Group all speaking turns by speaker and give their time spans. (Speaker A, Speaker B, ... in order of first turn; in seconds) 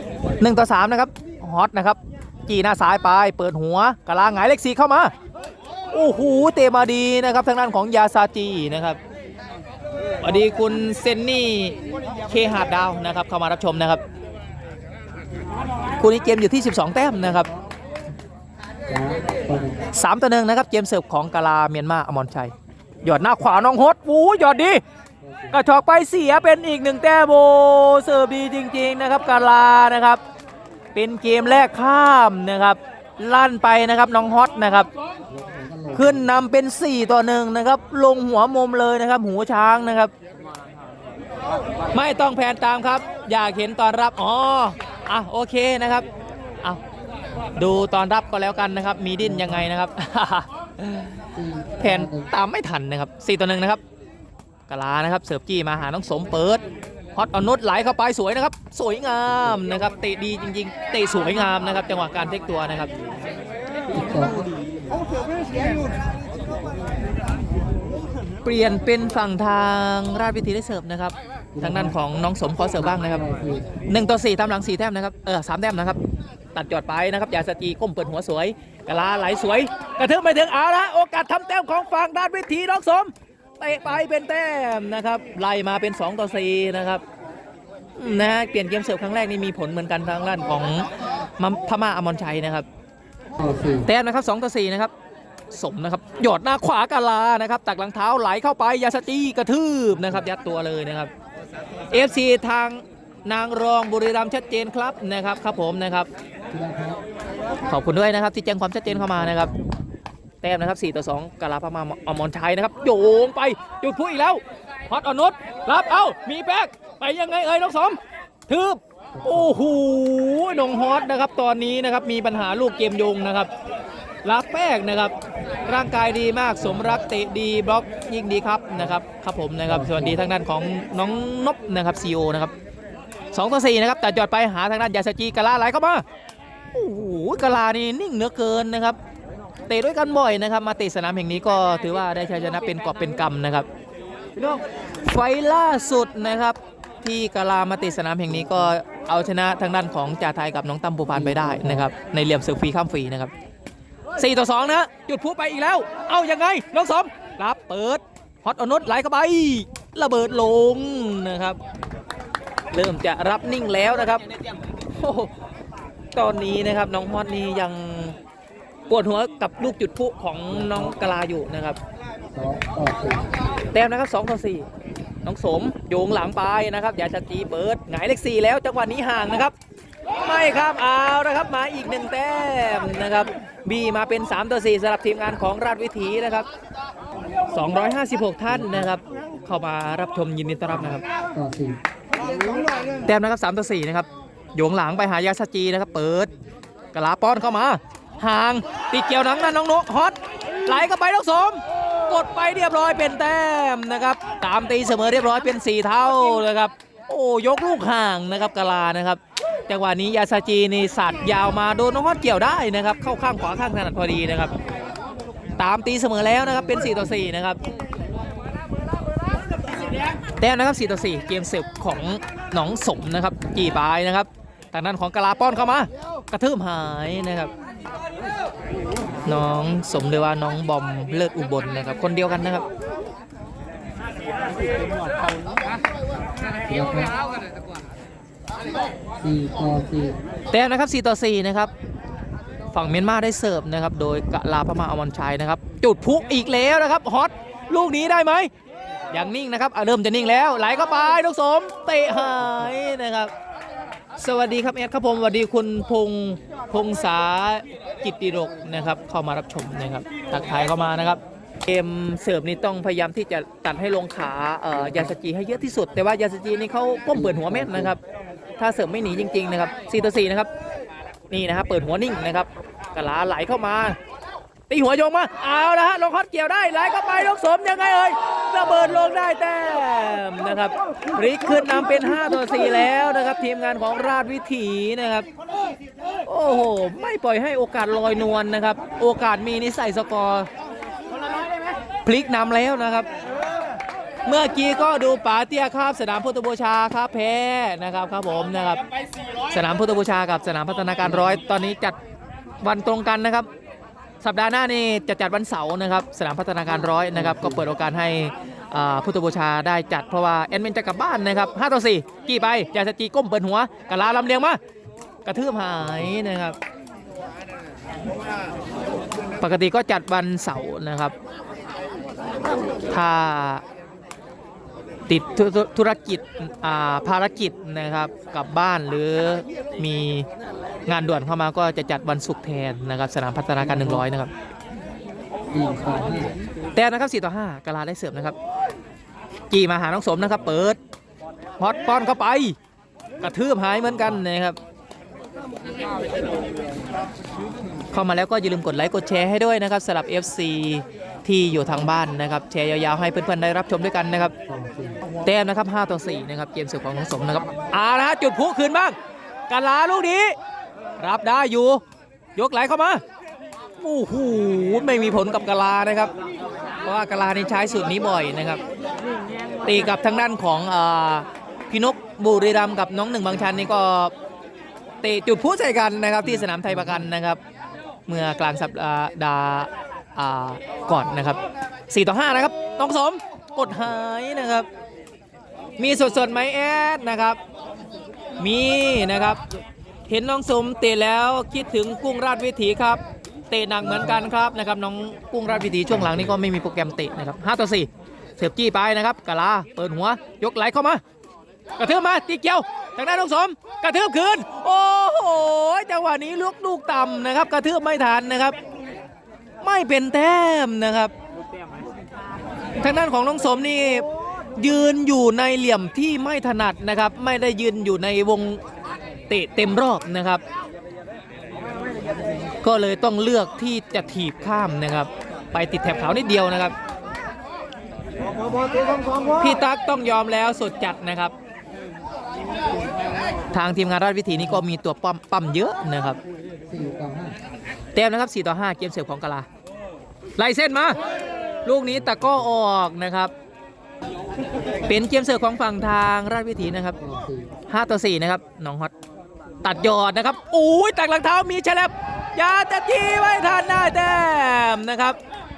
Speaker A: 0.4-5.1, 5.9-9.0, 10.2-11.8, 12.3-14.0, 16.0-17.5, 19.9-22.5, 23.0-24.8, 25.5-30.2, 30.9-34.9, 35.9-40.1, 41.9-46.1, 47.6-51.1, 51.8-53.8, 54.7-56.6, 57.1-62.9, 68.4-73.2, 73.9-76.0, 76.5-87.0, 88.0-90.9, 91.4-92.7, 93.8-94.9, 95.5-101.1, 101.9-106.1, 107.7-109.5, 110.4-123.5, 124.2-125.1, 125.7-132.5, 133.3-136.0, 136.7-139.0, 139.7-143.7, 144.3-153.3, 154.2-161.6, 162.7-164.2, 164.9-165.3, 166.1-168.2, 168.9-171.8, 173.7-174.7, 175.2-179.5, 180.2-186.5, 187.5-191.0, 193.0-196.3, 196.9-214.5, 215.6-217.6, 220.4-227.5, 229.2-232.7, 240.5-241.7, 242.7-248.5, 249.1-253.3, 254.2-268.0, 268.6-270.5, 271.3-274.0, 274.7-285.3, 286.2-290.5, 292.0-293.1, 294.2-298.8, 299.5-302.0, 302.6-303.5, 304.2-314.6, 315.2-316.6, 319.4-321.1, 322.9-323.6, 325.1-330.3, 330.9-334.3, 336.7-338.4, 339.5-340.8, 341.6-342.6, 343.2-344.6, 347.9-354.3, 355.2-358.9, 359.5-360.3, 361.0-361.8, 362.4-363.0, 363.8-366.1, 366.8-368.6, 369.6-374.1, 375.0-377.4, 378.1-384.7, 385.8-387.4, 388.4-389.4, 390.1-401.0, 401.8-408.5, 409.6-411.1, 412.8-418.6, 419.3-420.4, 422.6-426.7, 429.4-431.3, 433.5-436.2, 437.9-439.5, 440.4-441.0, 441.6-443.3, 444.9-447.0, 447.7-448.9, 449.6-455.2
Speaker B: 17.1-17.7, 18.9-19.9, 25.2-25.6, 35.3-36.4, 49.2-49.7, 51.3-52.3, 63.9-64.5, 71.5-72.0, 72.6-73.7, 93.4-93.9, 106.5-107.0, 108.8-109.7, 119.1-119.6, 126.6-127.0, 129.7-130.2, 148.3-148.7, 151.1-151.9, 170.5-170.9, 172.3-173.3, 188.5-188.9, 190.7-191.8, 236.7-237.1, 239.2-240.2, 264.7-265.1, 267.1-267.9, 301.0-301.4, 306.7-307.6, 333.6-334.0, 335.5-336.3, 354.4-355.0, 393.8-394.2, 395.4-396.4, 436.7-437.4, 447.0-447.5